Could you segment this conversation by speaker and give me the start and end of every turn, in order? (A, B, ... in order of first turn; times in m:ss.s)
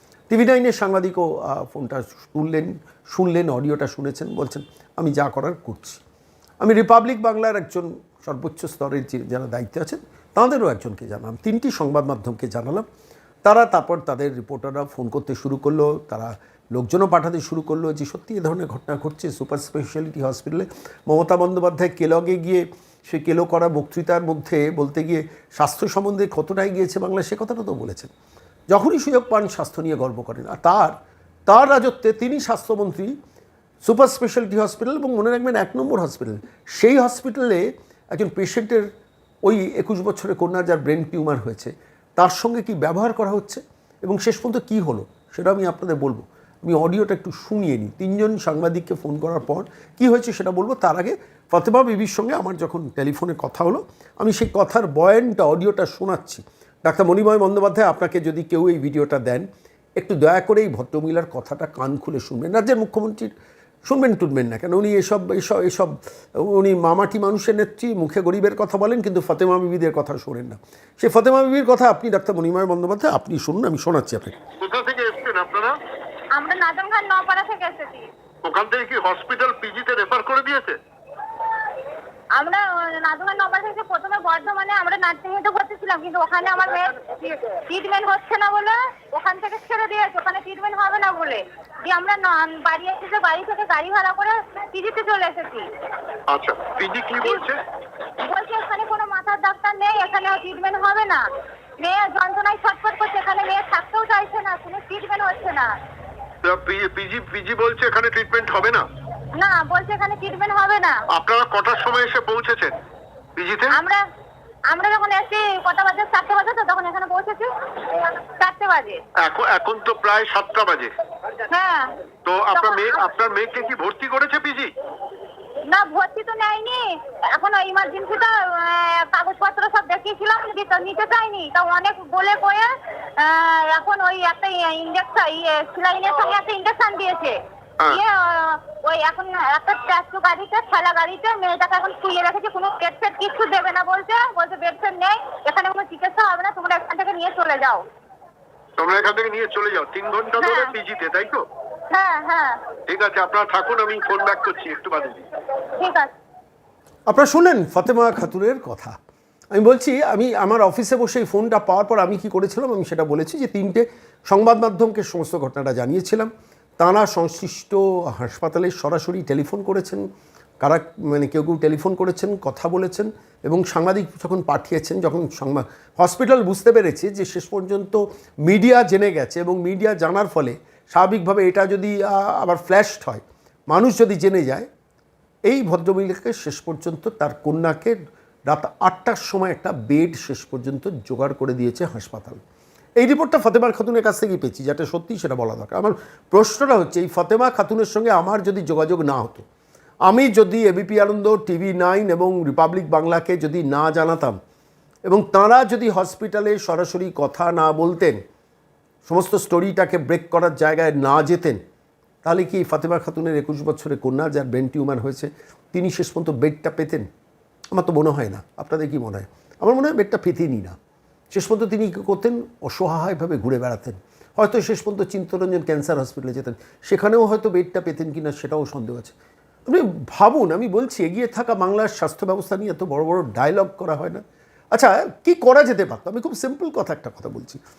0:00.3-0:06.0 A
0:06.6-0:12.8 A
0:13.4-0:28.1 A
0:28.7-0:31.0 A
0:31.5-0:33.2 A
0:33.8-0:38.8 A
0:39.4-0:59.5 A
1:00.0-1:03.3 A
1:03.8-1:14.4 A
1:14.6-1:15.8 B
1:16.3-1:18.1 C
1:18.4-1:20.8 B
1:22.3-1:35.7 C
1:36.3-1:37.6 B
1:37.2-1:37.4 C
1:38.2-1:41.3 C
1:41.8-1:45.7 C
1:46.4-1:48.8 B
1:49.4-1:51.0 C
1:51.1-1:52.8 B
1:53.4-1:53.8 B
1:53.7-1:54.0 C
1:54.7-1:59.0 C
1:59.2-2:00.9 B
2:01.5-2:02.0 C
2:02.2-2:04.7 B
2:02.5-2:03.0 C
2:05.7-2:27.8 C
2:28.8-2:31.4 B
2:30.4-2:30.7 C
2:31.9-2:32.6 C
2:32.9-2:35.2 B
2:35.8-2:36.1 C
2:37.1-2:38.9 A
2:39.5-2:50.0 A
2:50.6-3:04.7 A
3:05.5-3:08.0 A
3:08.5-3:12.4 A
3:13.0-3:19.4 A
3:20.0-3:24.4 A
3:25.1-3:28.2 A
3:29.0-3:31.6 A
3:32.2-3:37.0 A
3:37.7-3:40.8 A
3:41.3-3:49.1 A
3:49.7-3:57.6 A